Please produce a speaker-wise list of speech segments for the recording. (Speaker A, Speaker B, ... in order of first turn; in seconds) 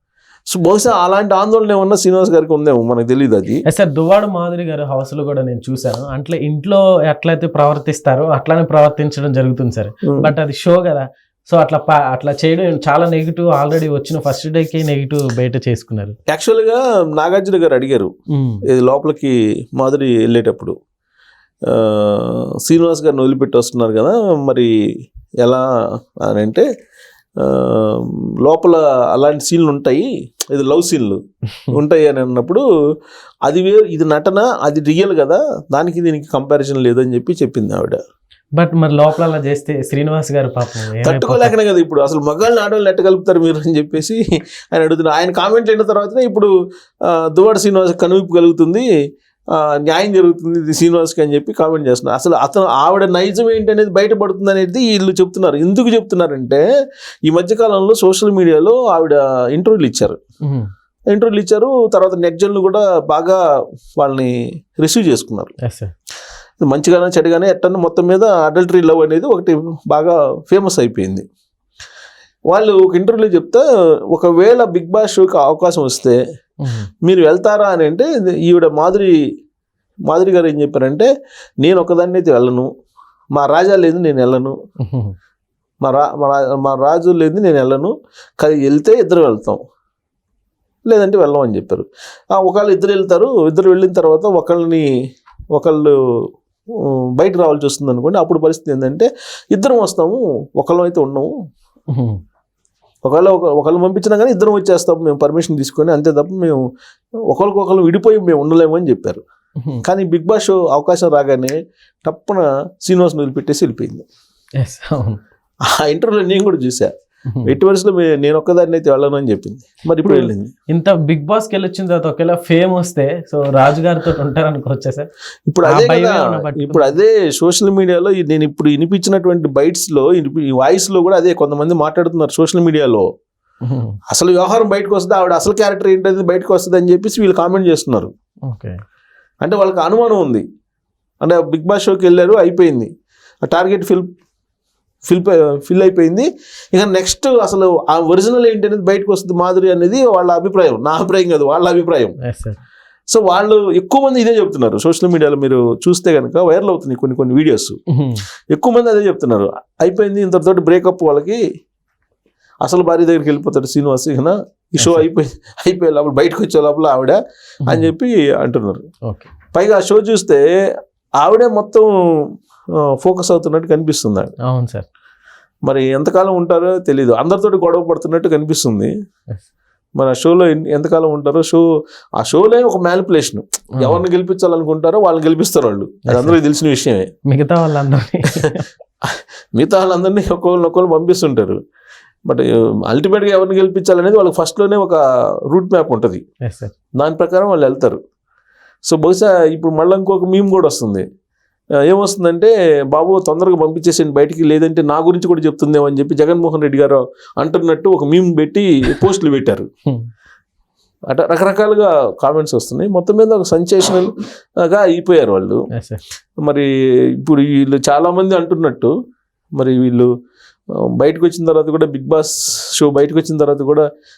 Speaker A: 0.5-3.6, 10.0-10.3, 16.3-18.1, 18.7-20.8, 21.7-24.7, 26.2-26.7, 27.4-31.2, 31.7-32.6, 33.5-38.0, 41.0-46.5, 47.1-48.9, 49.5-56.6, 57.3-60.2, 61.1-63.4, 64.0-65.5, 66.6-71.2, 72.5-76.2, 77.0-79.1, 80.1-81.1, 81.6-82.7, 83.3-84.6, 85.8-89.6, 90.9-94.9, 95.5-95.9, 96.8-101.3, 103.0-106.6, 107.3-109.2, 109.8-111.5, 112.0-114.1, 115.7-116.9, 117.5-120.5, 125.5-133.1, 134.1-138.1, 139.4-140.4, 141.2-142.9, 143.4-144.1, 145.1-152.2, 153.1-157.8, 158.5-161.4, 162.6-168.8, 169.5-170.4, 171.2-171.9, 173.0-174.3, 175.7-178.9, 180.0-181.6, 182.2-187.1, 189.0-191.6, 192.3-196.2, 197.0-198.0, 198.9-201.1, 201.8-209.7, 211.1-215.6, 216.4-218.9, 219.6-220.1, 220.9-223.8
Speaker B: 3.7-16.2, 18.3-18.6, 38.6-41.5, 60.5-60.7, 65.6-65.9, 76.6-76.9, 84.8-85.1, 101.9-102.2, 109.6-109.8, 114.6-115.2, 117.3-117.5, 120.0-125.1, 125.6-127.0, 133.7-134.0, 138.5-138.8, 152.2-152.6, 157.9-158.2, 164.8-165.1, 167.7-167.9, 174.4-174.9, 186.1-186.4, 187.3-188.7, 196.4-196.7, 215.7-216.0